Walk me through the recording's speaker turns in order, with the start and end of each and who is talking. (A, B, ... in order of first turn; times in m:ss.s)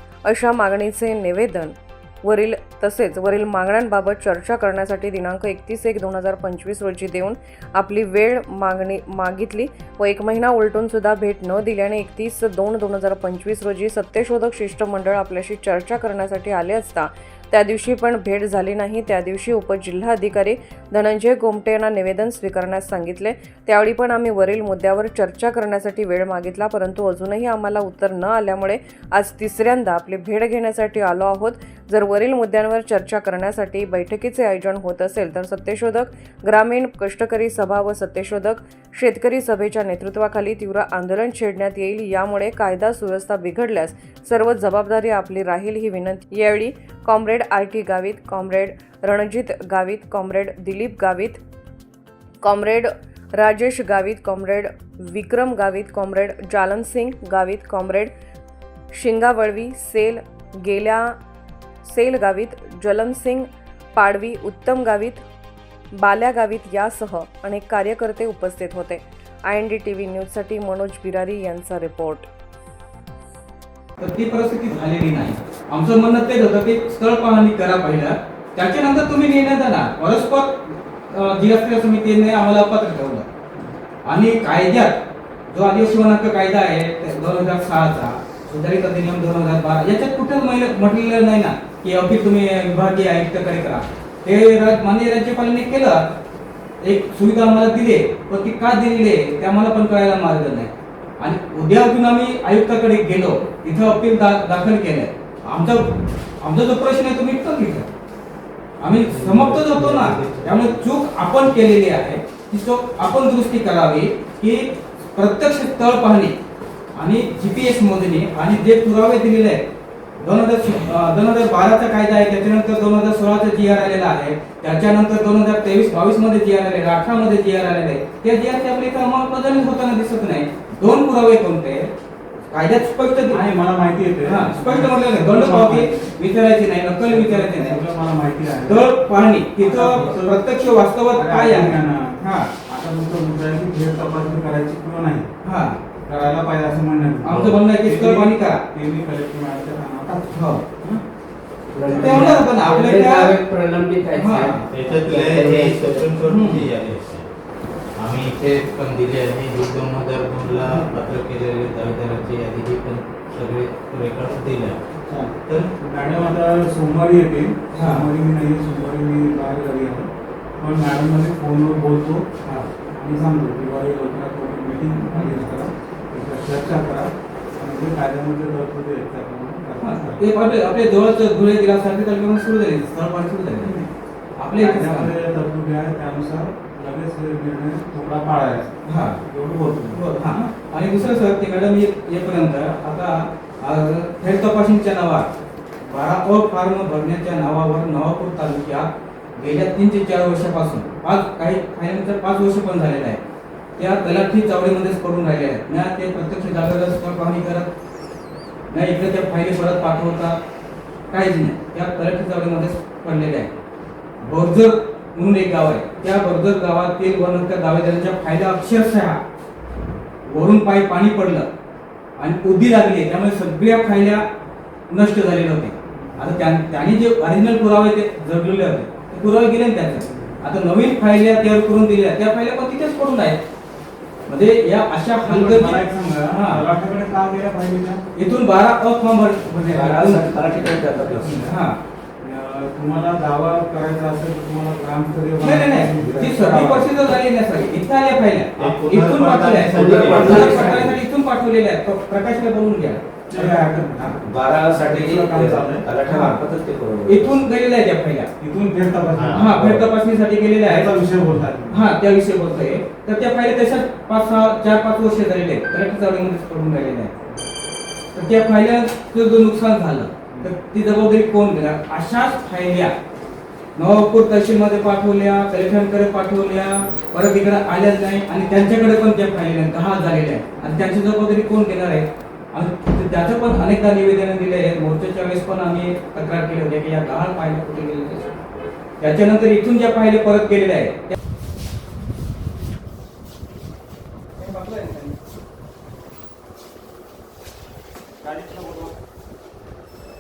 0:00.2-0:51.4 A
0:52.4-0:58.1 A
0:58.9-1:01.2 A
1:01.8-1:05.2 A
1:06.0-1:12.3 A
1:14.0-1:20.6 B
1:21.1-1:23.2 B
1:24.0-1:36.0 B
1:36.8-1:47.9 B
1:48.8-1:56.4 B
1:49.0-1:50.8 C
1:56.9-1:59.6 B
2:00.2-2:11.9 B
2:12.5-2:13.4 B
2:13.3-2:16.1 D
2:14.2-2:17.8 B
2:17.0-2:18.9 D
2:18.6-2:22.5 B
2:19.6-2:20.4 D
2:21.1-2:25.3 D
2:25.4-2:25.8 B
2:26.1-2:31.0 D
2:27.2-2:28.6 B
2:30.3-2:30.6 B
2:31.7-2:36.1 E
2:31.8-2:32.3 D
2:31.9-2:33.4 B
2:34.1-2:34.7 B
2:34.7-2:37.3 C
2:36.2-2:36.6 B
2:38.0-2:44.8 C
2:45.1-3:00.2 D
2:47.7-2:48.1 B
2:59.8-3:03.8 B
3:03.6-3:03.9 D
3:04.4-3:05.1 B
3:04.6-3:08.8 D
3:08.8-3:09.2 B
3:09.3-3:10.0 D
3:09.9-3:15.3 B
3:15.8-3:23.2 B
3:23.8-3:27.7 B
3:28.7-3:30.4 B
3:31.1-3:33.6 B
3:34.2-3:39.2 B
3:40.2-3:41.5 B
3:42.2-3:44.2 B
3:44.9-3:53.4 B
3:45.9-3:46.4 D
3:54.3-3:56.6 B
3:55.2-3:58.0 D
3:58.1-4:01.8 B
3:59.8-4:01.4 E
4:01.0-4:01.5 D
4:02.2-4:06.9 D
4:05.4-4:13.1 B
4:08.6-4:10.9 C
4:09.7-4:11.0 E
4:13.3-4:15.9 D
4:14.2-4:17.3 E
4:16.0-4:16.4 B
4:17.0-4:18.3 B
4:18.4-4:19.8 D
4:19.2-4:19.5 C
4:19.3-4:20.9 B
4:20.6-4:21.8 D
4:21.7-4:27.1 B
4:28.1-4:32.9 B
4:33.8-4:48.3 B
4:49.0-4:51.2 B
4:54.4-4:55.2 B
4:58.2-4:58.9 B